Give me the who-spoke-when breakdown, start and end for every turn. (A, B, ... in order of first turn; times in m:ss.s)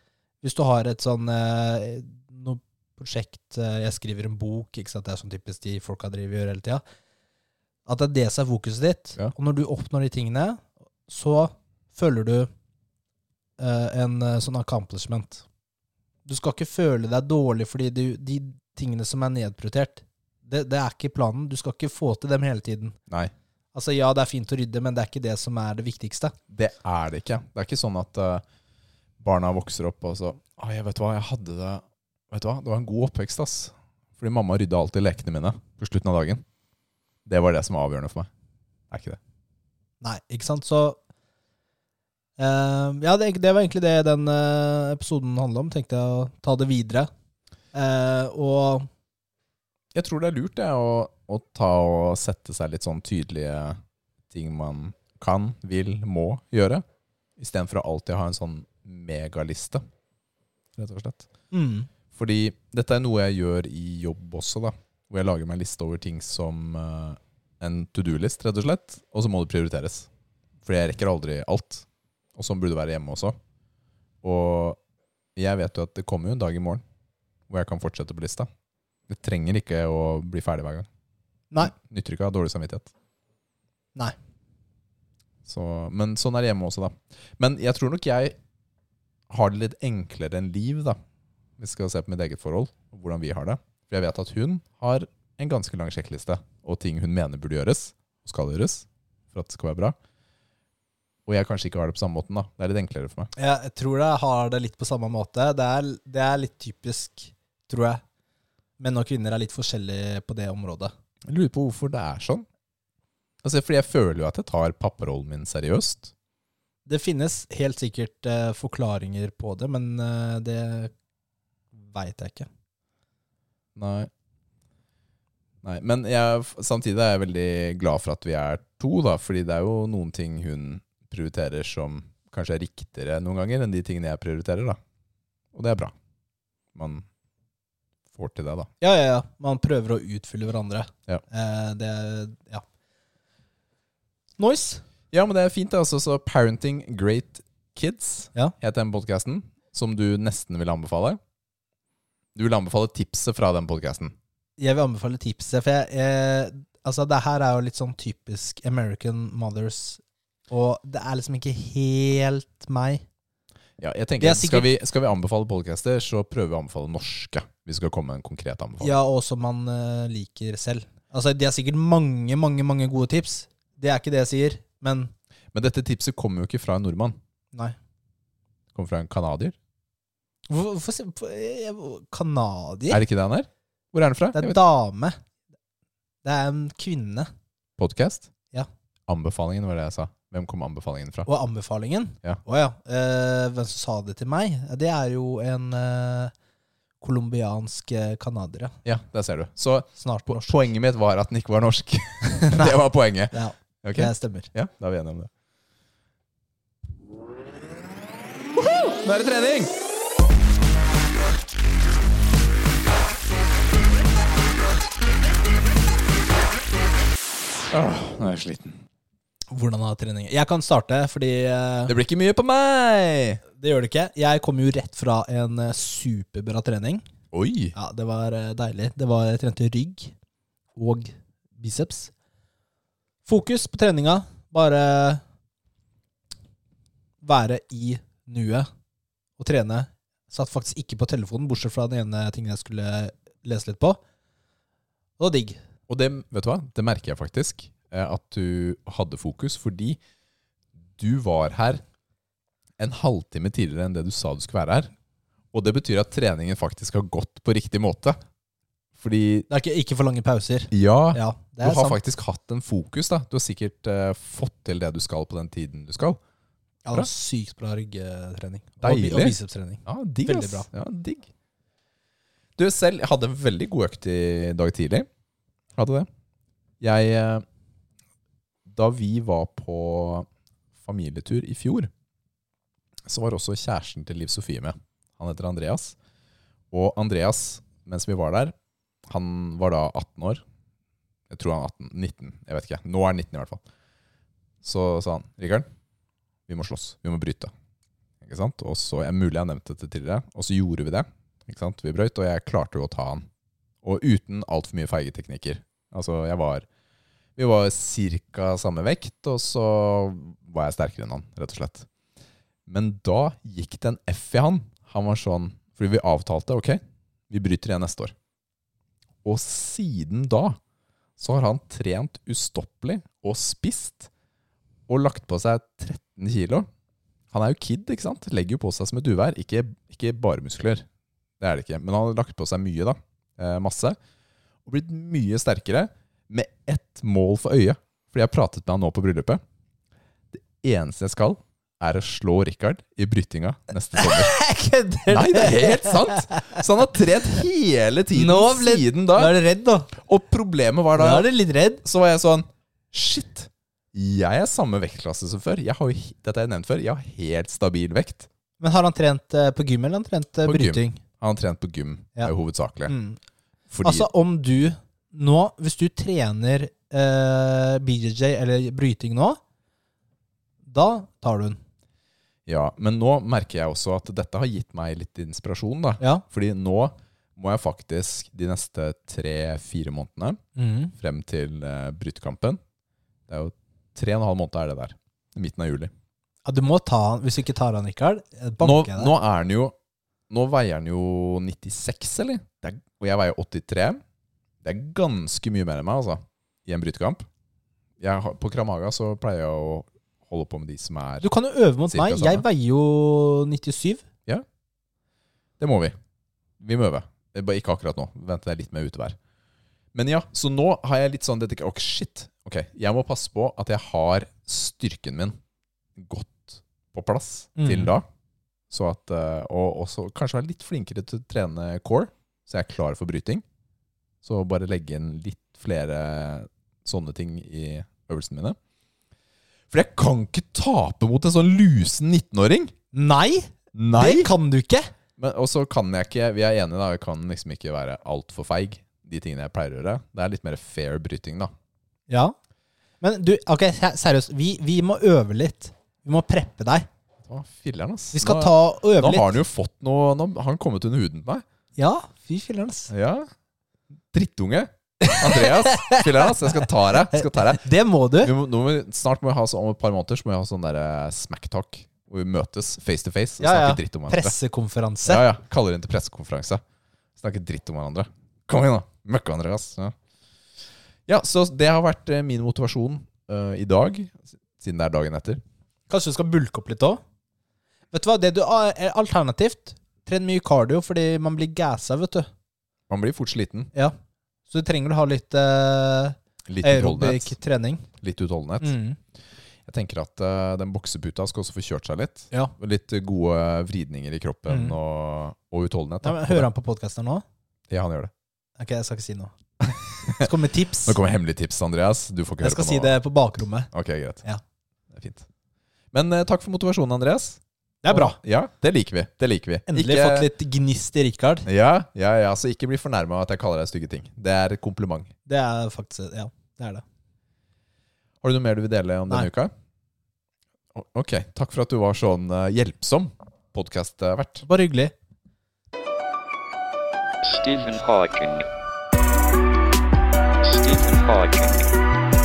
0:00.4-0:06.8 A
0:07.8-0:12.5 A
0:13.6-0:15.4 A
0:16.2-0:23.0 A
0:23.7-0:26.3 A
0:26.5-0:28.4 B
0:29.2-0:36.4 B
0:37.2-0:38.3 B
0:38.9-0:39.2 B
0:40.0-0:41.0 A
0:42.4-0:47.1 A
0:47.7-0:48.9 A
0:49.9-0:53.8 B
0:54.3-0:56.8 B
0:57.4-0:59.8 B
1:00.8-1:01.3 B
1:01.5-1:01.9 A
1:02.1-1:10.1 B
1:10.6-1:13.4 B
1:14.2-1:14.8 B
1:15.4-1:16.8 B
1:17.5-1:18.5 B
1:19.1-1:20.9 B
1:21.6-1:22.9 B
1:25.4-1:28.4 B
1:29.3-1:31.0 B
1:31.6-1:40.0 B
1:41.2-1:43.3 B
1:43.4-1:48.0 A
1:48.8-1:50.9 A
1:51.2-1:52.4 B
1:53.4-1:56.1 B
1:56.8-2:00.9 A
2:01.8-2:02.5 A
2:03.8-2:04.1 B
2:05.6-2:14.8 B
2:15.5-2:15.9 B
2:16.7-2:17.0 B
2:18.1-2:18.7 B
2:18.8-2:22.6 A
2:24.4-2:24.8 A
2:25.1-2:31.2 B
2:32.3-2:34.1 B
2:34.6-2:43.0 A
2:43.8-2:49.0 B
2:44.2-2:44.7 A
2:48.8-2:55.1 A
2:55.5-2:57.2 B
2:58.7-2:59.6 B
3:00.5-3:03.0 A
3:02.9-3:04.6 B
3:04.3-3:05.2 A
3:06.2-3:07.3 A
3:07.8-3:08.3 B
3:09.1-3:11.3 B
3:11.2-3:16.3 A
3:17.0-3:18.8 A
3:18.8-3:25.3 B
3:20.0-3:20.6 A
3:22.3-3:22.8 A
3:23.3-3:24.5 A
3:28.5-3:29.7 B
3:37.7-3:38.8 B
3:39.5-3:41.9 A
3:41.9-3:43.4 B
3:43.6-3:47.0 A
3:47.3-3:47.7 B
3:47.7-3:50.1 A
3:50.7-3:52.1 A
3:53.2-3:55.2 A
3:57.2-3:58.7 A
3:59.4-4:04.0 A
4:05.2-4:05.6 A
4:05.9-4:10.0 B
4:11.0-4:11.8 B
4:12.8-4:14.9 B
4:15.5-4:18.2 B
4:19.0-4:19.5 B
4:19.5-4:22.0 A
4:20.7-4:26.2 B
4:26.8-4:30.7 A
4:28.8-4:31.3 B
4:32.6-4:35.1 B
4:35.8-4:36.1 B
4:36.8-4:37.4 B
4:38.6-4:40.3 B
4:40.8-4:41.9 B
4:43.0-4:46.0 B
4:46.7-4:48.5 B
4:49.1-4:50.4 B
4:51.3-4:53.6 B
4:54.6-4:55.7 B
4:56.5-4:57.5 B
4:58.2-5:03.3 B
5:03.8-5:06.6 B
5:07.4-5:11.9 B
5:12.7-5:18.1 B
5:19.2-5:20.6 B
5:21.2-5:24.1 B
5:24.9-5:26.7 B
5:27.3-5:30.8 B
5:31.4-5:34.0 B
5:34.6-5:39.4 B
5:40.3-5:44.4 B
5:43.9-5:46.6 A
5:45.1-5:49.3 B
5:48.1-5:49.9 A
5:50.0-5:51.3 B
5:50.9-5:51.8 A
5:51.8-5:58.3 B
5:58.6-6:01.0 A
6:00.4-6:02.9 B
6:02.9-6:03.2 A
6:03.7-6:04.1 B
6:03.8-6:09.4 A
6:10.6-6:11.6 A
6:12.5-6:20.4 B
6:20.6-6:20.9 A
6:21.0-6:22.6 B
6:23.3-6:25.9 B
6:26.4-6:29.1 A
6:28.6-6:29.7 B
6:30.3-6:34.0 B
6:34.6-6:37.2 B
6:38.0-6:41.3 B
6:41.2-6:44.0 A
6:41.9-6:42.4 B
6:45.6-6:46.0 B
6:46.6-6:49.2 B
6:49.9-6:55.4 B
6:56.0-6:58.0 B
6:57.6-6:57.9 A
6:58.7-7:03.4 B
7:04.2-7:08.6 B
7:09.7-7:12.7 B
7:12.9-7:14.9 A
7:13.7-7:14.3 B
7:15.2-7:21.5 B
7:22.1-7:22.4 A
7:23.0-7:26.9 A
7:27.2-7:31.4 B
7:28.1-7:29.4 A
7:31.8-7:32.9 A
7:32.9-7:33.3 B
7:34.1-7:37.6 B
7:35.0-7:38.3 A
7:38.2-7:44.3 B
7:43.4-7:45.2 A
7:45.0-7:46.6 B
7:47.2-7:49.9 B
7:51.1-7:55.4 B
7:55.9-7:57.0 A
7:57.9-8:02.3 A
8:02.9-8:03.7 B
8:04.5-8:07.8 A
8:06.5-8:07.3 B
8:08.0-8:08.8 B
8:08.6-8:09.0 A
8:09.6-8:16.5 B
8:14.5-8:14.8 A
8:16.0-8:17.2 A
8:17.7-8:18.1 B
8:18.6-8:19.3 A
8:19.6-8:23.0 B
8:20.1-8:21.0 A
8:22.4-8:23.7 A
8:23.7-8:24.2 B
8:24.9-8:25.3 B
8:25.9-8:30.3 B
8:27.8-8:28.2 A
8:29.7-8:31.4 A
8:31.4-8:35.1 B
8:35.3-8:36.8 A
8:38.2-8:39.5 B
8:40.7-8:44.4 B
8:44.4-8:44.9 A
8:47.2-8:48.4 C
8:50.4-8:51.7 C